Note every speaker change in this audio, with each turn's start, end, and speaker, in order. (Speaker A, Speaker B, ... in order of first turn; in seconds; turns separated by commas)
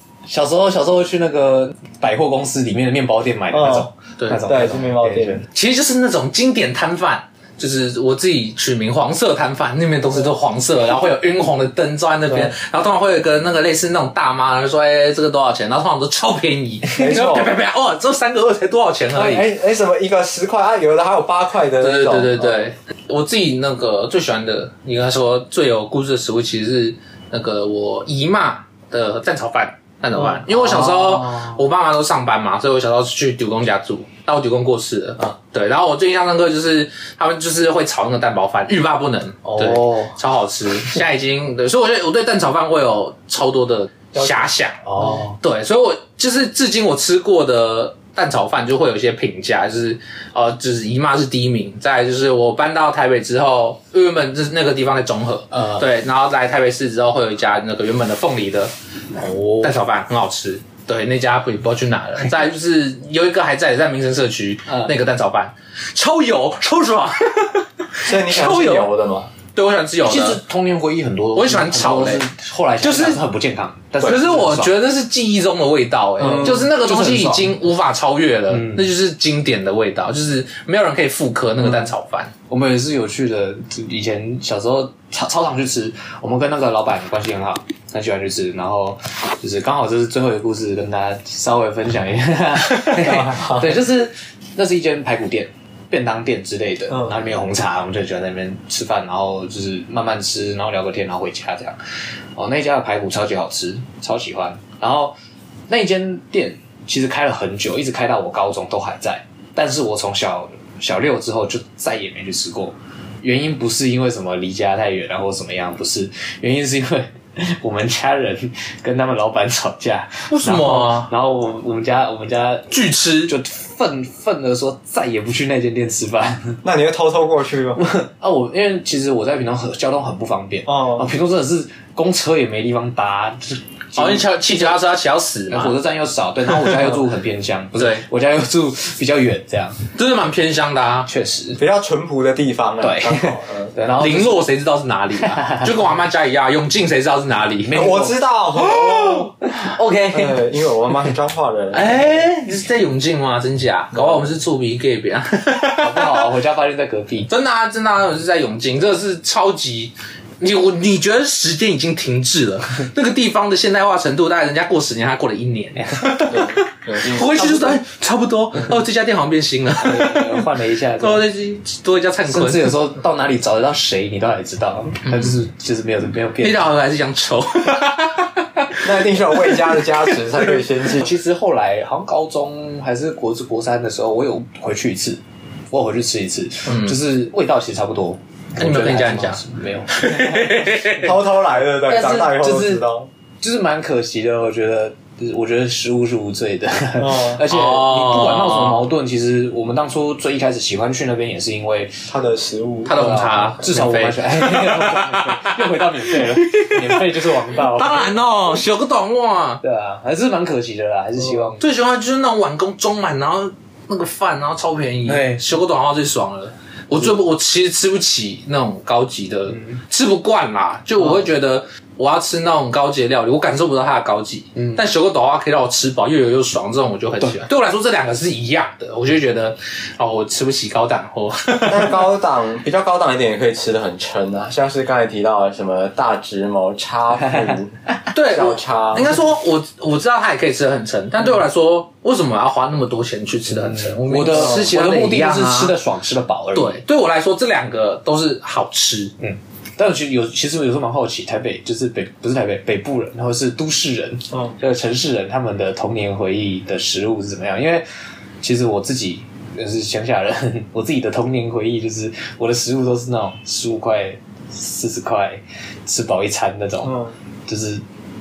Speaker A: 0.3-5.4, Speaker B: 3.5-3.9, Speaker B: 4.5-5.5, Speaker C: 5.5-19.5, Speaker B: 16.9-17.6, Speaker B: 19.1-22.7, Speaker C: 21.8-58.7, Speaker A: 30.4-31.6, Speaker A: 39.5-40.1, Speaker B: 44.1-44.5, Speaker A: 44.9-45.4, Speaker A: 55.5-55.8, Speaker A: 59.2-59.7, Speaker C: 59.6-68.9, Speaker B: 68.0-69.3, Speaker C: 69.5-70.4, Speaker A: 70.0-74.8, Speaker C: 71.3-72.2, Speaker C: 72.8-73.2, Speaker C: 74.0-82.3, Speaker A: 76.2-77.5, Speaker A: 82.5-101.8, Speaker A: 102.4-105.1, Speaker A: 105.7-126.6, Speaker C: 120.3-121.1, Speaker C: 122.7-123.3, Speaker B: 126.6-127.8, Speaker A: 127.8-134.8, Speaker C: 133.9-135.8, Speaker A: 135.5-139.8, Speaker C: 137.7-138.0, Speaker C: 139.9-141.1, Speaker A: 141.1-141.6, Speaker B: 141.6-143.7, Speaker A: 142.8-144.4, Speaker C: 144.0-147.9, Speaker A: 147.6-148.2, Speaker B: 147.7-149.3, Speaker C: 148.6-149.8, Speaker A: 149.6-150.4, Speaker B: 150.1-152.0, Speaker C: 151.7-156.2, Speaker B: 153.9-154.3, Speaker A: 155.8-157.3, Speaker C: 157.3-170.4, Speaker B: 166.3-167.8, Speaker A: 169.7-171.3, Speaker C: 171.0-172.7, Speaker A: 172.3-176.7, Speaker C: 175.1-175.4, Speaker C: 176.4-180.1, Speaker B: 178.8-181.1, Speaker A: 180.9-191.1, Speaker C: 186.7-187.0, Speaker C: 188.6-189.4, Speaker C: 189.9-191.1, Speaker B: 191.0-193.1, Speaker A: 191.8-192.9, Speaker A: 193.4-202.0, Speaker B: 197.0-197.4, Speaker C: 197.5-198.9, Speaker B: 202.1-202.9, Speaker C: 202.9-209.6, Speaker A: 202.9-208.1, Speaker A: 209.6-211.6, Speaker C: 211.6-232.0, Speaker A: 215.1-215.4, Speaker B: 231.6-239.1, Speaker C: 238.1-245.7, Speaker A: 243.5-246.8, Speaker C: 246.6-249.1, Speaker A: 249.2-257.9, Speaker A: 258.4-267.8